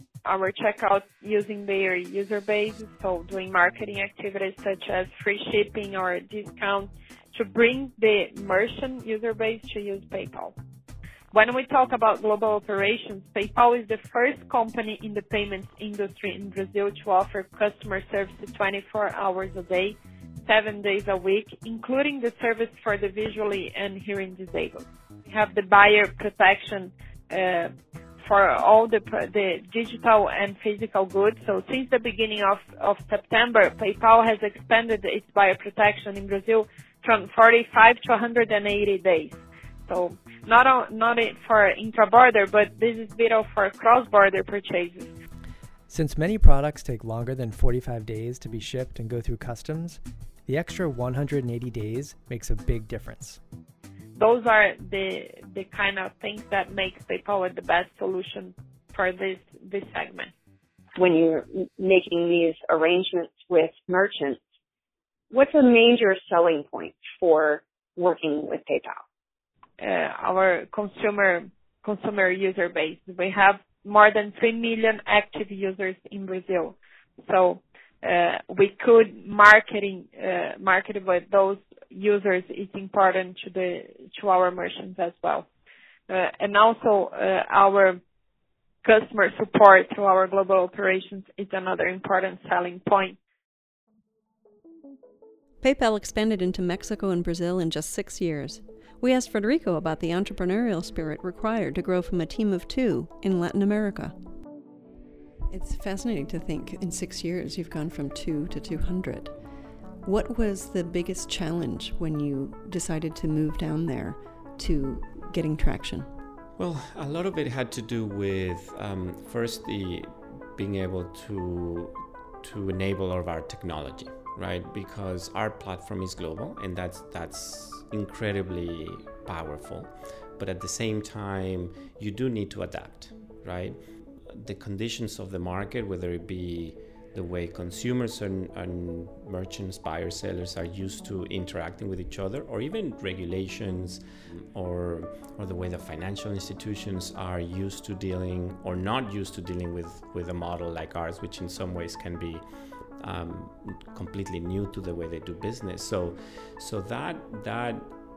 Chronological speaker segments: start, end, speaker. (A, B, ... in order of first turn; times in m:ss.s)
0:00.2-0:10.5 A
0:11.3-0:27.7 A
0:28.2-0:45.1 A
0:45.9-0:53.4 B
0:54.2-1:00.3 A
1:01.0-1:04.4 C
1:05.3-1:09.0 C
1:09.8-1:25.4 A
1:26.1-1:28.0 A
1:28.8-1:33.2 A
1:35.6-1:44.1 D
1:45.5-1:49.3 D
1:50.0-1:56.1 D
1:56.6-2:13.8 E
2:14.3-2:32.4 E
2:33.0-2:37.9 E